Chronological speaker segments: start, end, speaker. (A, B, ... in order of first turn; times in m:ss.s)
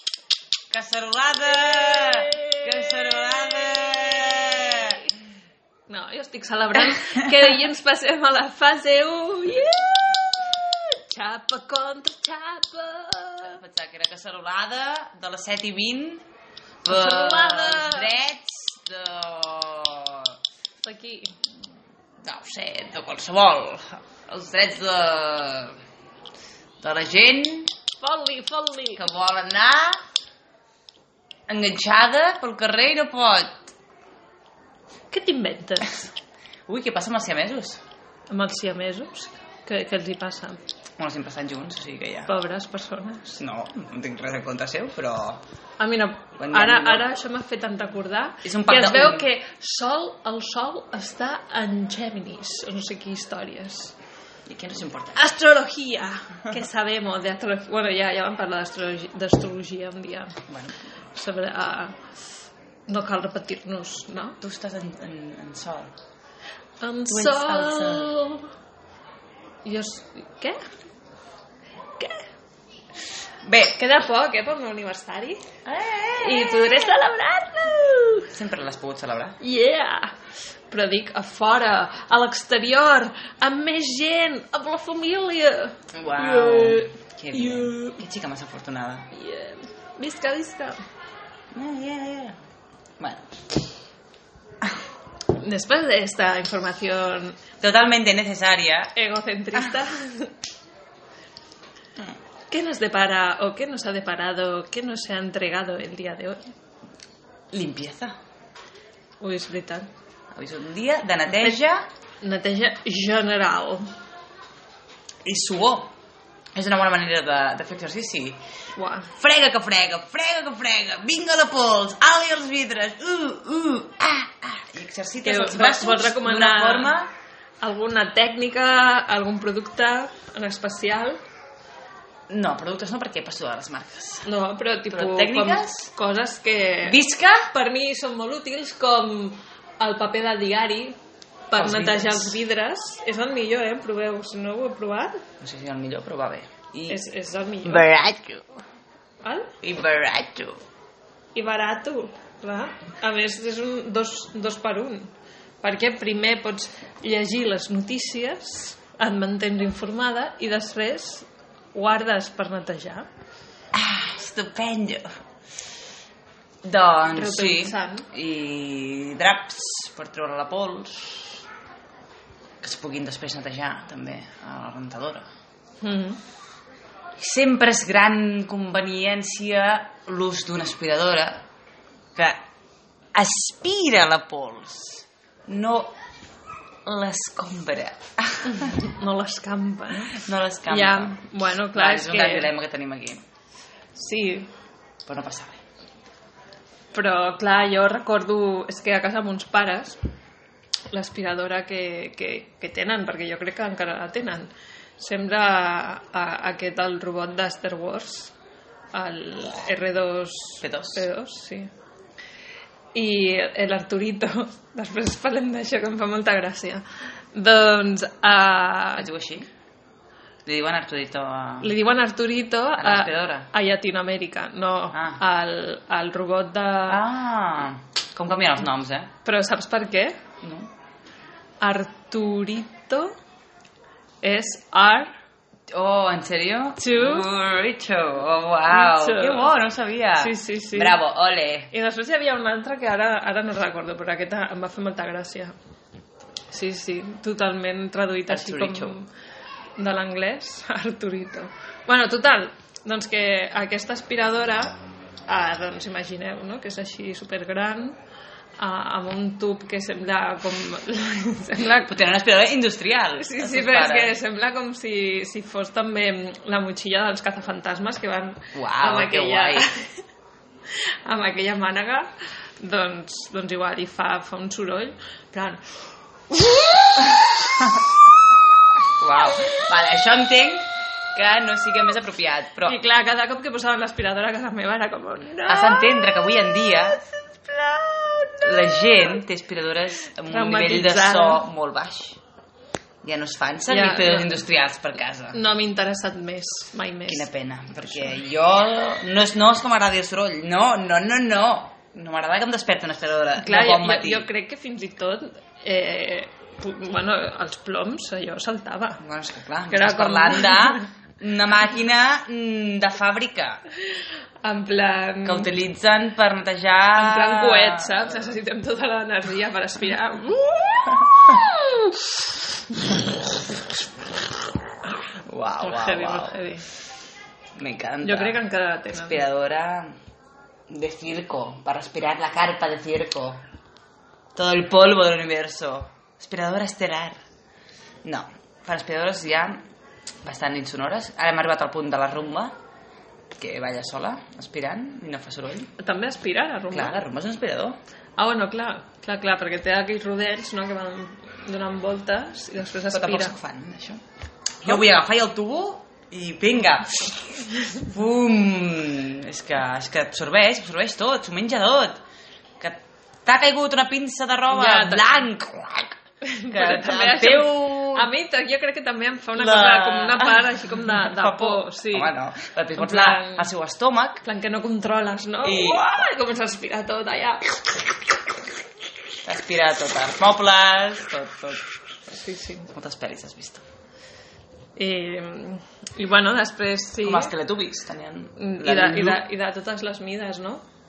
0:00.7-0:05.0 A
0:01.6-0:05.0 B
0:05.9-0:13.6 B
0:13.4-0:16.2 A
0:16.8-0:20.3 A
0:16.9-0:18.1 B
0:20.8-0:21.4 B
0:22.2-0:25.8 A
0:26.8-0:27.7 A
0:28.0-0:29.0 B
0:29.0-0:30.0 A
0:31.5-0:33.7 A
0:35.1-0:36.1 B
0:36.7-0:37.8 A
0:38.3-0:40.6 B
0:41.0-0:42.3 A
0:42.3-0:43.4 B
0:43.4-0:45.4 A
0:45.8-0:53.9 B
0:46.4-0:47.1 A
0:48.4-0:49.3 A
0:54.5-0:55.2 A
0:55.2-1:00.4 B
1:00.5-1:00.8 A
1:01.1-1:02.0 B
1:02.9-1:04.4 B
1:04.4-1:05.9 A
1:06.8-1:08.5 B
1:07.1-1:08.1 A
1:09.6-1:10.6 B
1:12.0-1:12.3 B
1:13.4-1:13.8 A
1:13.8-1:15.5 B
1:15.7-1:16.9 A
1:16.2-1:18.3 B
1:18.3-1:19.4 A
1:19.4-1:20.2 B
1:20.7-1:28.0 B
1:25.9-1:29.1 A
1:29.1-1:30.8 B
1:31.5-1:32.4 A
1:33.0-1:33.4 A
1:35.3-1:37.4 B
1:37.6-1:38.9 A
1:39.0-1:40.3 B
1:42.5-1:46.5 B
1:47.5-1:48.2 A
1:49.2-1:49.9 B
1:50.3-1:51.9 A
1:51.3-1:51.6 B
1:52.2-1:53.9 B
1:55.2-1:55.9 A
1:56.6-1:58.4 A
1:58.8-1:59.1 B
1:59.2-2:07.1 A
2:05.2-2:07.0 B
2:07.6-2:11.2 B
2:12.3-2:14.3 A
2:14.2-2:21.0 B
2:14.9-2:15.9 A
2:16.8-2:17.5 A
2:21.5-2:25.2 B
2:21.5-2:22.4 A
2:25.4-2:27.0 A
2:26.9-2:27.9 B
2:27.6-2:28.5 A
2:29.2-2:29.5 B
2:29.6-2:30.6 A
2:31.3-2:35.1 B
2:35.6-2:43.1 B
2:43.7-2:45.1 A
2:46.6-2:51.4 A
2:47.1-2:48.1 B
2:52.6-2:55.2 A
2:55.8-2:56.2 B
2:57.2-3:01.4 A
3:02.2-3:02.4 A
3:03.2-3:05.9 A
3:06.8-3:08.8 A
3:08.5-3:12.5 B
3:10.0-3:13.2 A
3:13.9-3:14.5 B
3:15.1-3:15.6 A
3:16.9-3:20.0 B
3:20.9-3:28.3 B
3:28.9-3:31.7 B
3:30.6-3:31.1 A
3:32.9-3:39.1 B
3:39.0-3:39.5 A
3:40.5-3:41.7 A
3:41.6-3:47.0 B
3:42.8-3:43.5 A
3:44.9-3:45.2 A
3:46.9-3:49.1 A
3:49.2-3:50.2 B
3:50.4-3:50.7 A
3:51.6-3:53.2 B
3:54.2-3:55.1 B
3:55.7-4:01.7 A
3:56.8-3:57.3 B
3:58.7-3:59.5 B
4:00.2-4:01.0 B
4:01.7-4:05.5 B
4:06.5-4:09.1 B
4:08.3-4:09.0 A
4:09.8-4:18.0 B
4:18.6-4:21.9 B
4:21.8-4:24.1 A
4:23.2-4:30.0 B
4:28.5-4:29.7 A
4:30.7-4:32.1 B
4:32.6-4:37.8 B
4:39.0-4:42.8 A
4:42.6-4:49.0 B
4:45.5-4:47.0 A
4:48.4-4:52.2 A
4:50.2-4:51.4 B
4:53.0-4:55.4 A
4:53.7-4:54.4 B
4:55.3-4:57.3 B
4:57.1-5:04.3 A
4:57.9-4:58.1 B
5:03.4-5:09.0 B
5:09.0-5:13.6 A
5:09.7-5:10.9 B
5:13.7-5:15.5 B
5:15.2-5:18.2 A
5:16.9-5:23.1 B
5:25.2-5:26.4 A
5:25.6-5:26.7 B
5:27.6-5:28.4 A
5:28.0-5:29.2 B
5:28.9-5:29.9 A
5:30.7-5:33.4 A
5:34.4-5:37.2 A
5:38.0-5:39.6 A
5:40.2-5:42.6 A
5:43.4-5:45.7 A
5:45.8-5:47.1 B
5:46.7-5:47.8 A
5:48.2-5:53.4 B
5:52.9-5:54.0 A
5:54.6-6:02.0 A
6:02.6-6:06.0 A
6:04.5-6:05.2 B
6:06.2-6:12.1 B
6:06.5-6:08.1 A
6:09.4-6:14.2 A
6:12.8-6:13.5 B
6:14.2-6:18.0 B
6:15.4-6:16.1 A
6:19.2-6:21.6 A
6:22.1-6:22.7 B
6:22.7-6:23.6 A
6:24.8-6:27.3 B
6:27.0-6:29.2 A
6:28.4-6:30.6 B